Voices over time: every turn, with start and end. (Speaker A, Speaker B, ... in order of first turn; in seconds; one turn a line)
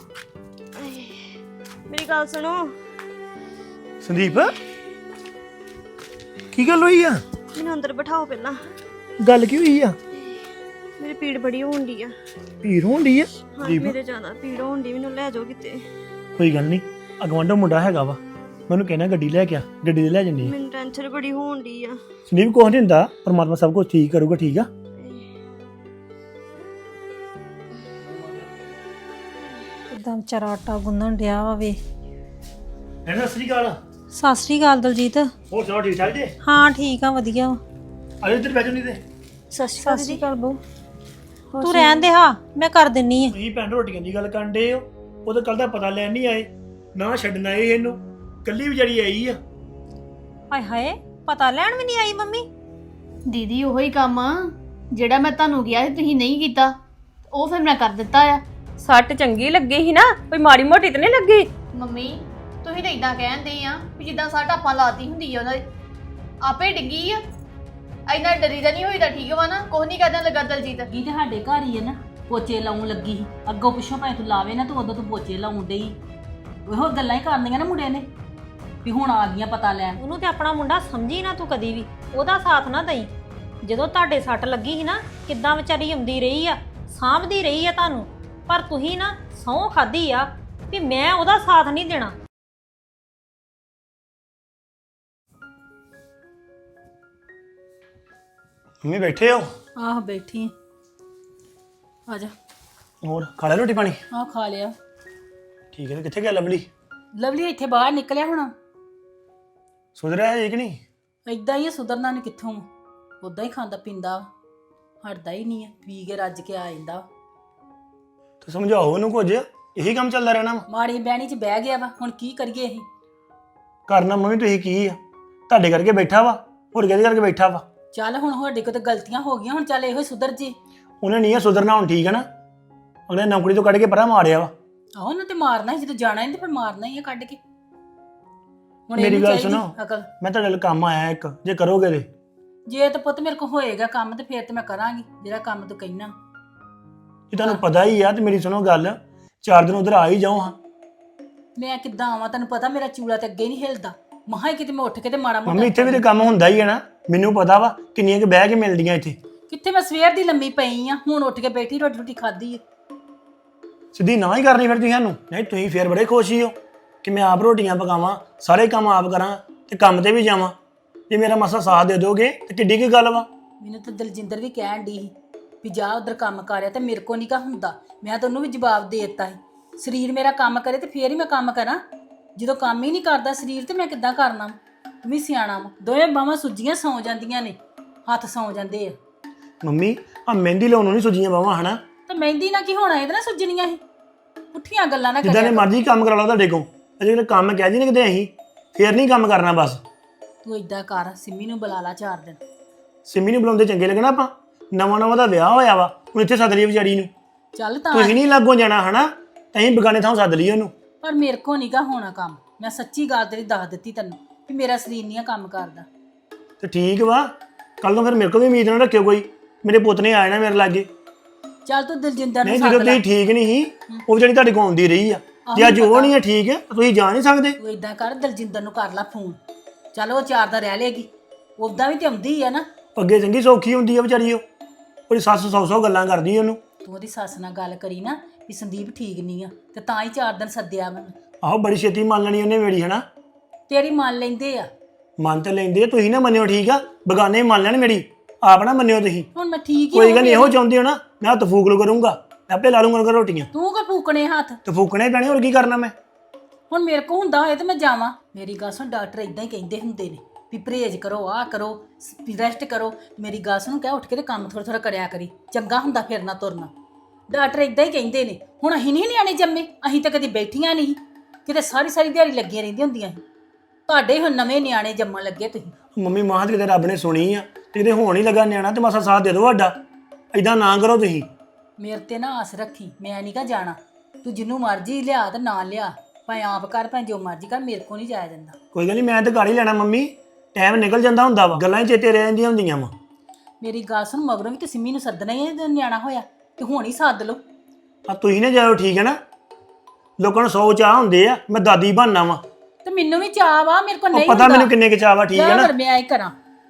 Speaker A: 0.7-2.8
Speaker B: 4.0-4.5
Speaker B: 6.5-7.2
Speaker A: 7.5-8.7
Speaker B: 9.2-10.0
Speaker A: 11.0-12.1
Speaker B: 12.6-13.9
Speaker A: 13.5-15.9
Speaker B: 16.4-20.5
Speaker A: 20.4-22.0
Speaker B: 22.3-24.7
Speaker A: 25.0-25.3
Speaker C: 29.9-31.8
Speaker B: 33.0-33.8
Speaker C: 34.1-35.3
Speaker B: 35.5-36.3
Speaker C: 36.4-37.6
Speaker B: 38.2-39.0
Speaker A: 39.5-40.2
Speaker C: 39.8-40.6
Speaker A: 41.5-42.1
Speaker C: 41.6-43.3
Speaker B: 43.3-49.4
Speaker C: 50.5-52.5
Speaker D: 53.3-56.8
Speaker D: 57.3-58.4
Speaker E: 58.8-61.5
Speaker D: 61.7-65.7
Speaker D: 66.4-67.2
Speaker D: 68.1-70.9
Speaker F: 70.9-76.0
Speaker F: 76.7-78.1
Speaker F: 78.8-80.0
Speaker C: 80.0-83.1
Speaker C: 83.6-92.1
Speaker B: 98.8-99.5
Speaker F: 99.8-100.5
Speaker F: 102.1-102.3
Speaker B: 103.0-104.0
Speaker F: 104.1-104.7
Speaker B: 105.7-106.7
Speaker F: 107.2-108.5
Speaker B: 110.0-110.8
Speaker F: 111.3-112.7
Speaker F: 113.2-114.3
Speaker F: 115.0-117.0
Speaker B: 118.4-120.7
Speaker F: 120.7-122.8
Speaker B: 123.9-127.6
Speaker F: 127.9-130.6
Speaker B: 131.0-132.3
Speaker B: 133.1-134.5
Speaker F: 135.0-137.4
Speaker F: 138.9-140.1
Speaker B: 138.9-142.1
Speaker F: 142.7-146.1
Speaker B: 147.3-150.6
Speaker F: 151.6-156.0
Speaker B: 155.5-159.2
Speaker F: 159.5-162.6
Speaker B: 163.9-170.5
Speaker B: 171.1-173.3
Speaker F: 173.6-181.8
Speaker F: 182.3-188.9
Speaker B: 189.6-191.8
Speaker F: 192.1-193.8
Speaker F: 194.5-195.7
Speaker B: 195.2-199.8
Speaker F: 200.4-202.4
Speaker B: 203.1-207.1
Speaker F: 207.5-208.2
Speaker B: 207.9-210.7
Speaker F: 211.0-215.9
Speaker B: 216.6-220.9
Speaker F: 221.7-223.0
Speaker B: 222.4-227.6
Speaker F: 225.4-226.1
Speaker F: 227.6-229.4
Speaker F: 229.9-232.6
Speaker B: 232.9-234.4
Speaker B: 235.1-236.6
Speaker F: 236.8-241.1
Speaker B: 241.4-243.0
Speaker F: 243.7-244.7
Speaker B: 245.2-249.3
Speaker F: 249.3-250.6
Speaker B: 249.9-253.5
Speaker F: 253.5-254.6
Speaker B: 254.6-255.9
Speaker F: 256.7-266.7
Speaker F: 267.3-273.2
Speaker F: 273.9-275.7
Speaker B: 275.9-279.8
Speaker B: 280.3-281.3
Speaker F: 281.8-288.5
Speaker B: 288.7-292.9
Speaker F: 293.6-297.4
Speaker B: 298.1-299.2
Speaker B: 300.2-302.4
Speaker F: 302.8-304.7
Speaker B: 304.1-305.7
Speaker F: 305.3-306.3